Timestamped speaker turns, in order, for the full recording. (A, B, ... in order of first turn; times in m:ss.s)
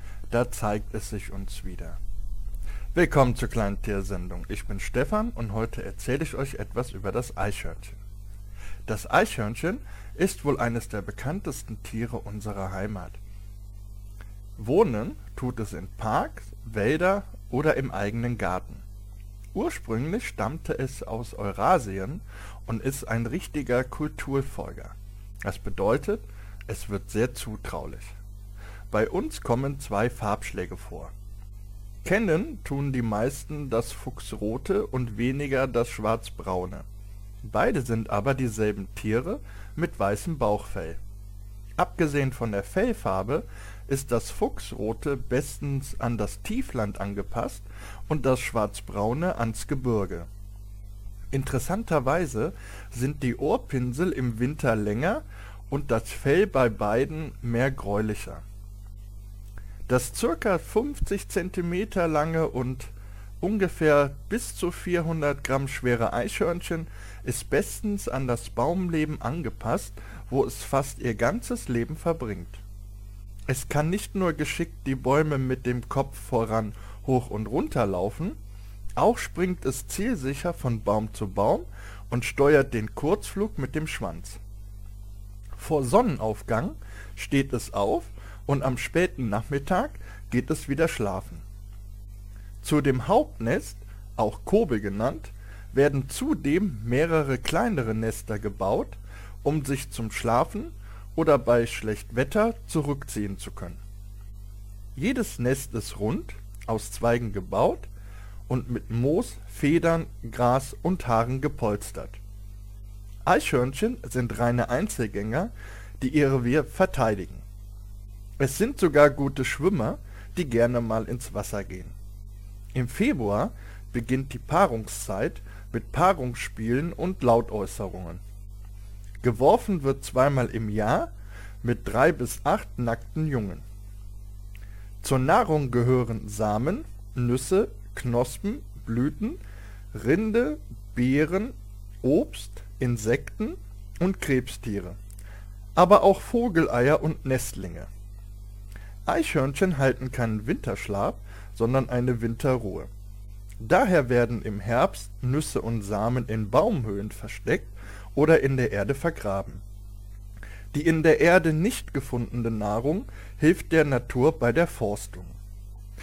0:00.3-0:02.0 A
0:02.9-0:08.0 A
0:08.9-0:13.2 A
0:14.6-0:18.8 A
0:19.5-0:28.2 A
0:28.9-0:31.1 A
0:32.0-0:36.9 A
0:37.4-0:41.0 A
0:41.8-0:50.3 A
0:51.3-0:58.4 A
0:59.9-1:12.6 A
1:13.5-1:18.4 A
1:19.0-1:24.4 A
1:25.6-1:31.4 A
1:32.6-1:43.8 A
1:45.0-1:47.9 A
1:48.5-1:52.2 A
1:53.2-1:57.4 A
1:58.4-2:02.0 A
2:02.7-2:08.2 A
2:09.2-2:13.6 A
2:15.0-2:19.4 A
2:19.9-2:25.0 A
2:25.8-2:27.9 A
2:29.1-2:32.9 A
2:33.6-2:39.6 A
2:40.7-2:45.4 A